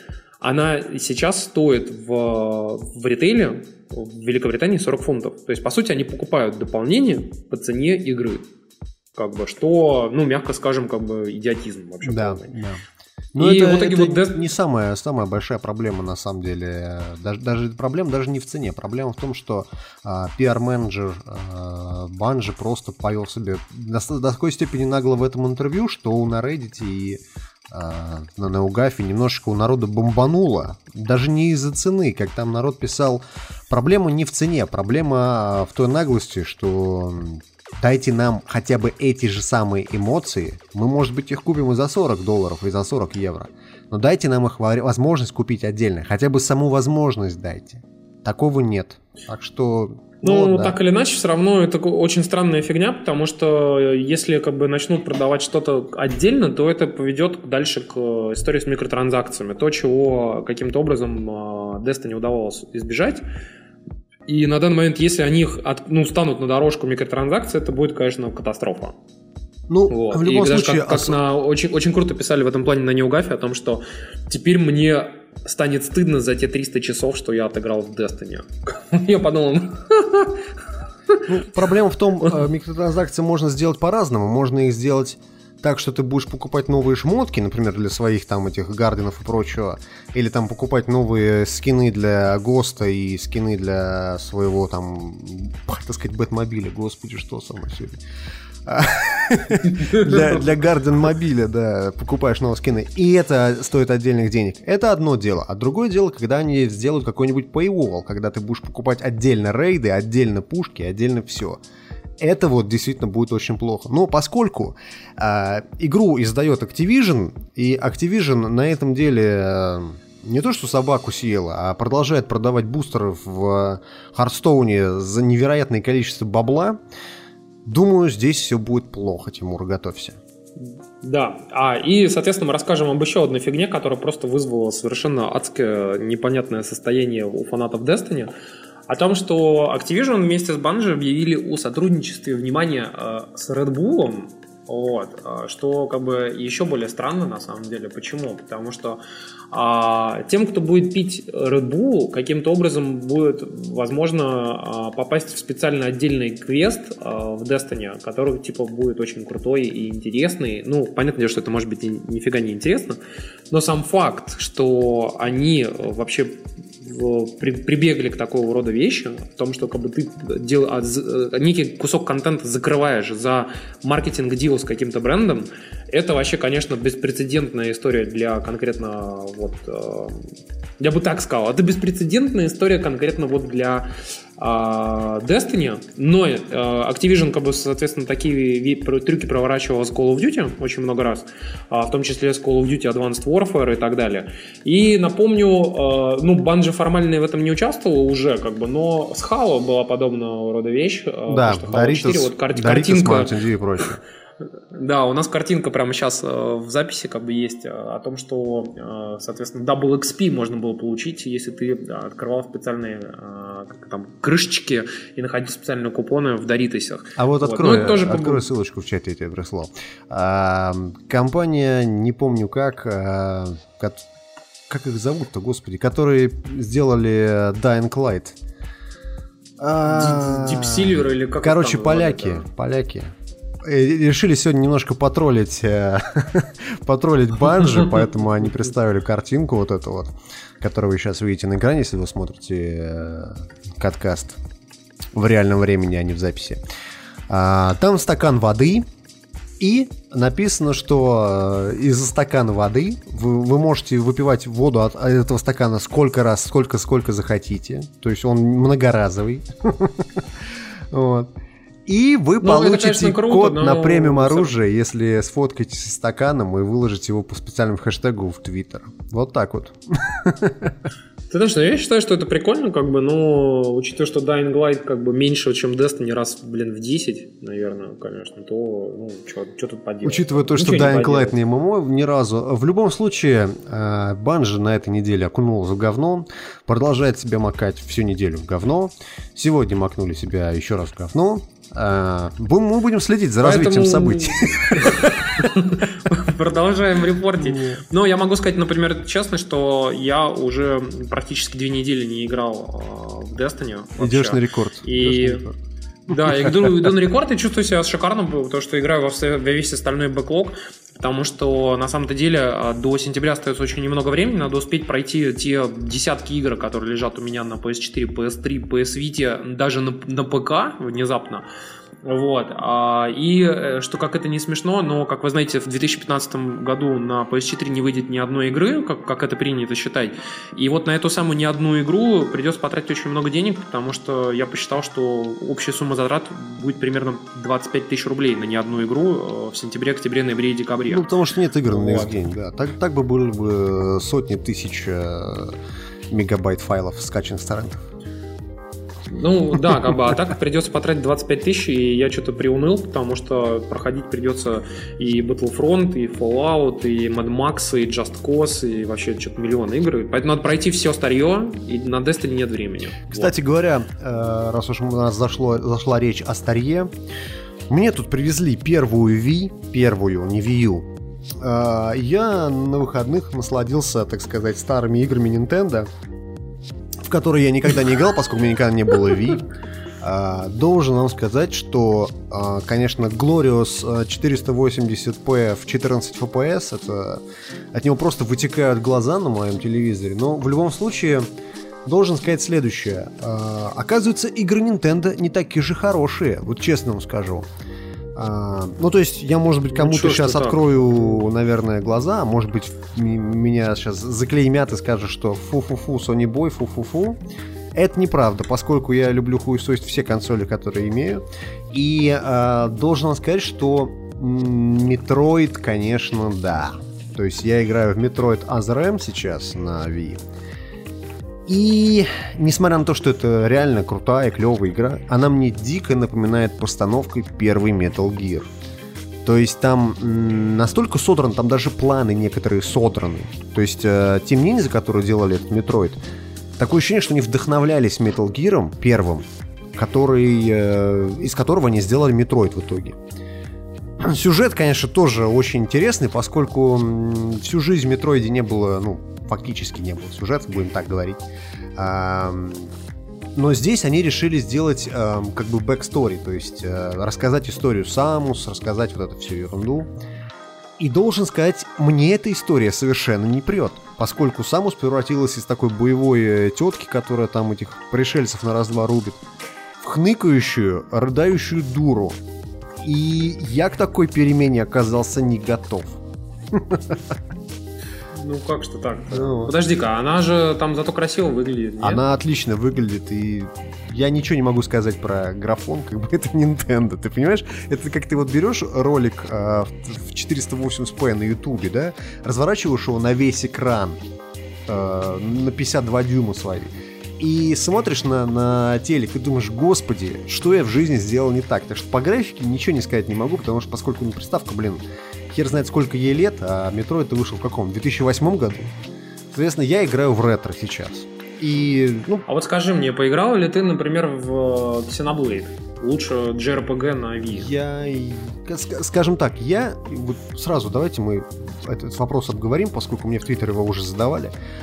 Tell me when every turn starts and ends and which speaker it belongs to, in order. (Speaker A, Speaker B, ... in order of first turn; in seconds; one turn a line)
Speaker A: 0.4-8.4
Speaker A: 9.2-12.5
Speaker B: 12.0-12.8
Speaker B: 13.3-50.8
Speaker A: 13.4-14.4
Speaker A: 50.2-63.2
Speaker A: 64.3-68.9
Speaker B: 69.7-71.2
Speaker A: 69.9-80.4
Speaker B: 81.3-98.0
Speaker B: 98.6-111.6
Speaker A: 99.6-100.5
Speaker B: 112.2-126.8
Speaker B: 127.6-130.2
Speaker A: 131.0-138.3
Speaker A: 138.9-149.0
Speaker A: 149.5-163.0
Speaker A: 163.5-180.3
Speaker A: 180.8-203.4
Speaker B: 201.3-204.0
Speaker A: 204.7-218.4
Speaker B: 217.2-224.0
Speaker B: 224.7-228.4
Speaker B: 229.6-244.4
Speaker A: 229.8-232.4
Speaker B: 245.1-246.6
Speaker B: 247.3-248.8
Speaker B: 249.6-260.3
Speaker B: 260.9-261.3
Speaker B: 261.9-270.8
Speaker A: 262.4-264.5
Speaker A: 271.3-281.4
Speaker B: 280.0-295.4
Speaker A: 293.4-305.4
Speaker B: 297.4-297.8
Speaker B: 304.0-305.5
Speaker A: 306.1-321.4
Speaker B: 306.1-306.9
Speaker A: 322.0-341.1
Speaker B: 340.8-345.6
Speaker A: 341.6-342.2
Speaker B: 346.1-347.8
Speaker A: 349.1-363.3
Speaker B: 363.1-366.9
Speaker B: 367.7-375.9
Speaker B: 377.0-379.5
Speaker B: 380.0-387.2
Speaker B: 387.7-391.2
Speaker B: 391.8-397.5
Speaker B: 398.1-407.2
Speaker A: 399.7-400.8
Speaker B: 407.7-420.2
Speaker B: 421.5-428.5
Speaker B: 429.2-436.0
Speaker B: 436.6-443.0
Speaker B: 444.0-451.2
Speaker B: 451.8-452.7
Speaker B: 453.3-459.9
Speaker B: 460.8-469.2
Speaker B: 469.8-472.2
Speaker B: 472.8-477.2
Speaker A: 478.1-482.0
Speaker B: 479.1-479.5
Speaker B: 481.8-494.0
Speaker B: 494.7-508.7
Speaker B: 509.3-512.2
Speaker A: 512.3-517.5
Speaker B: 517.3-524.3